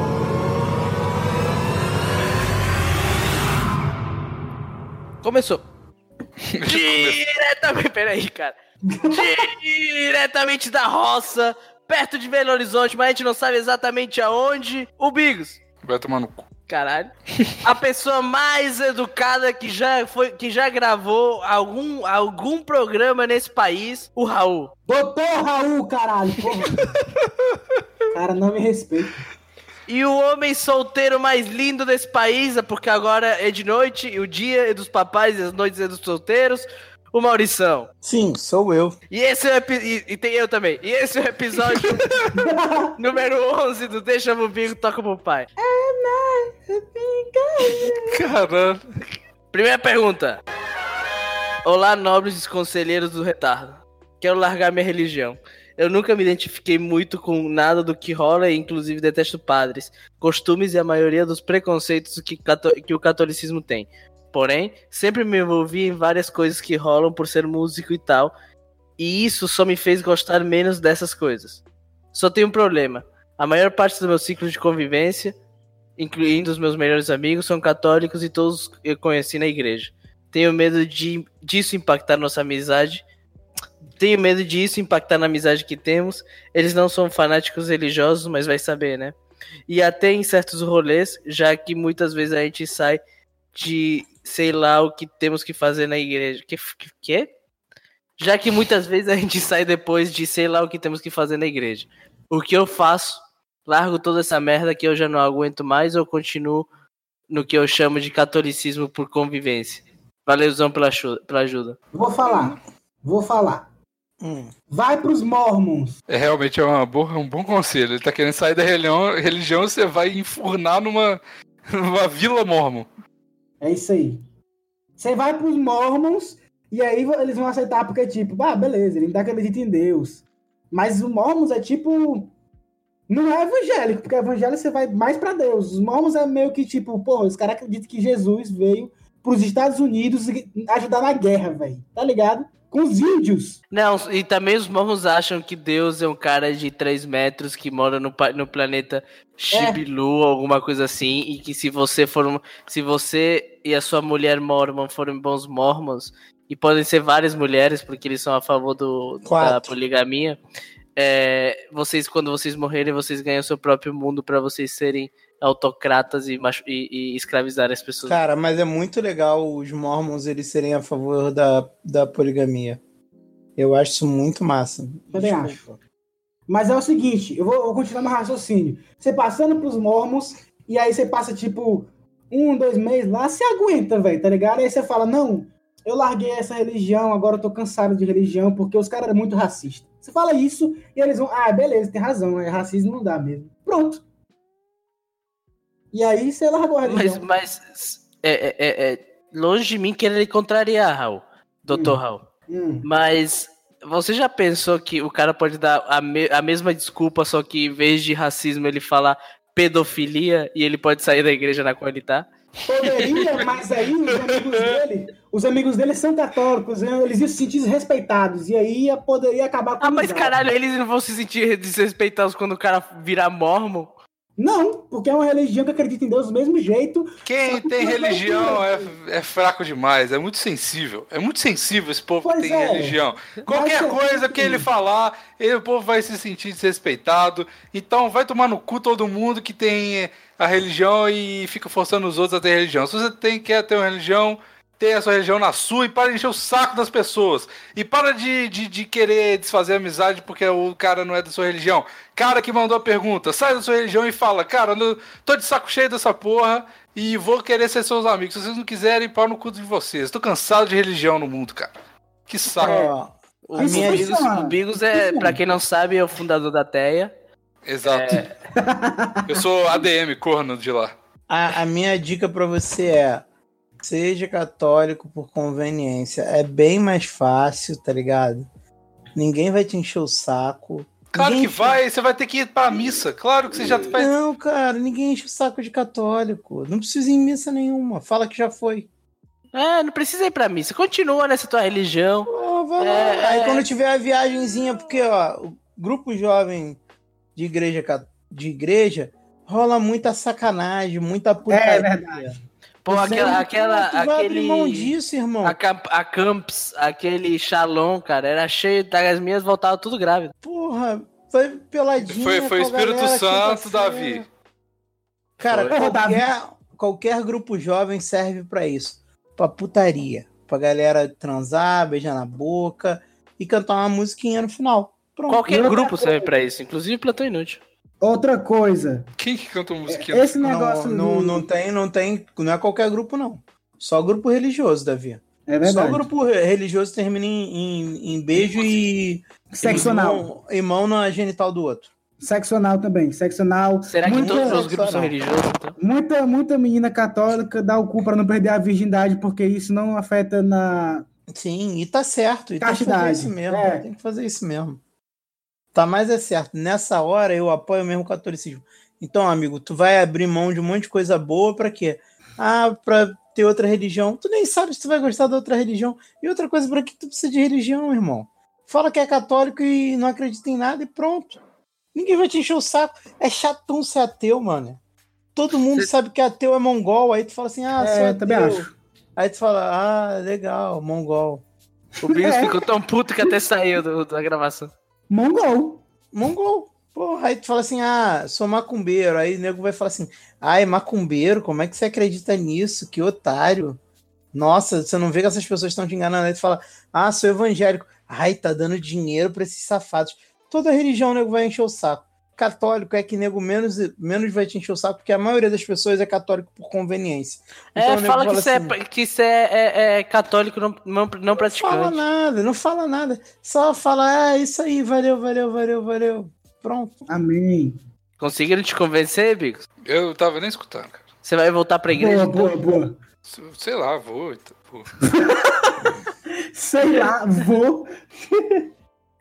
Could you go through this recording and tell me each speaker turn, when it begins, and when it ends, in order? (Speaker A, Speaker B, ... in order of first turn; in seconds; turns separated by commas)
Speaker A: 5.2-5.6, Speaker B: 6.5-7.2, Speaker A: 6.6-15.6, Speaker C: 8.9-9.3, Speaker B: 15.8-16.5, Speaker A: 16.7-17.1, Speaker A: 17.6-24.7, Speaker C: 24.9-27.0, Speaker C: 28.1-29.2, Speaker A: 29.9-37.9, Speaker D: 38.0-39.0, Speaker A: 39.1-42.1, Speaker C: 42.3-43.0, Speaker A: 43.0-45.5, Speaker C: 45.6-48.2, Speaker B: 47.6-48.8, Speaker A: 49.5-50.4, Speaker A: 51.6-68.3, Speaker A: 69.0-71.6, Speaker A: 72.1-75.3, Speaker A: 76.0-83.0, Speaker A: 84.0-89.2, Speaker A: 89.7-93.0, Speaker A: 93.5-97.3, Speaker A: 98.2-106.7, Speaker A: 107.3-111.8, Speaker C: 111.9-113.6, Speaker D: 114.2-114.5, Speaker C: 114.7-116.0, Speaker B: 116.1-122.9, Speaker C: 123.6-124.2, Speaker C: 125.0-132.3, Speaker C: 133.1-143.6, Speaker A: 143.7-160.4, Speaker C: 149.5-149.8, Speaker D: 159.2-159.8, Speaker A: 161.0-168.2, Speaker D: 168.1-172.8, Speaker D: 173.6-175.8, Speaker C: 175.1-175.7, Speaker C: 176.5-194.0, Speaker C: 195.9-197.3, Speaker A: 196.8-202.2, Speaker C: 201.7-202.0, Speaker C: 202.5-202.9, Speaker A: 202.8-212.3, Speaker C: 212.7-220.4, Speaker A: 219.8-223.9, Speaker C: 224.4-228.9, Speaker B: 227.3-261.7, Speaker C: 232.2-233.0, Speaker C: 233.5-234.7, Speaker B: 262.3-262.8, Speaker D: 262.6-264.1, Speaker C: 262.6-262.9, Speaker A: 263.4-267.1, Speaker C: 263.6-265.4, Speaker B: 267.6-268.2, Speaker A: 267.9-268.3, Speaker C: 268.6-269.4, Speaker B: 269.3-270.9, Speaker D: 271.3-273.2, Speaker D: 273.8-278.4, Speaker D: 279.1-281.8, Speaker B: 281.1-284.1, Speaker D: 283.9-288.9, Speaker A: 289.5-293.7, Speaker D: 292.3-296.8, Speaker D: 297.4-302.4, Speaker C: 301.5-302.4, Speaker A: 302.9-310.3, Speaker C: 302.9-303.4, Speaker D: 302.9-305.6, Speaker D: 310.4-314.3, Speaker B: 312.1-314.3, Speaker D: 315.4-325.5, Speaker A: 315.4-315.8, Speaker C: 315.7-316.3, Speaker A: 325.3-327.6, Speaker C: 325.5-326.3, Speaker C: 328.0-329.1, Speaker B: 329.2-330.4, Speaker C: 329.9-331.5, Speaker D: 330.4-341.9, Speaker C: 335.5-336.1, Speaker B: 338.4-338.7, Speaker C: 339.5-340.3, Speaker C: 342.2-344.7, Speaker A: 343.8-345.8, Speaker D: 344.2-345.1, Speaker C: 345.8-351.1, Speaker D: 351.3-354.8, Speaker C: 352.6-353.9, Speaker D: 355.7-371.4, Speaker D: 371.9-374.8, Speaker D: 375.4-381.4, Speaker C: 377.8-378.7, Speaker C: 382.0-382.7, Speaker A: 382.0-384.7, Speaker C: 385.1-385.8, Speaker D: 386.1-393.8, Speaker D: 394.3-408.8, Speaker A: 407.8-412.0, Speaker D: 411.3-416.9, Speaker C: 417.1-417.8, Speaker A: 418.2-419.6, Speaker B: 419.9-421.0, Speaker A: 421.2-422.6, Speaker C: 421.9-423.0, Speaker B: 423.3-424.9, Speaker C: 425.1-428.6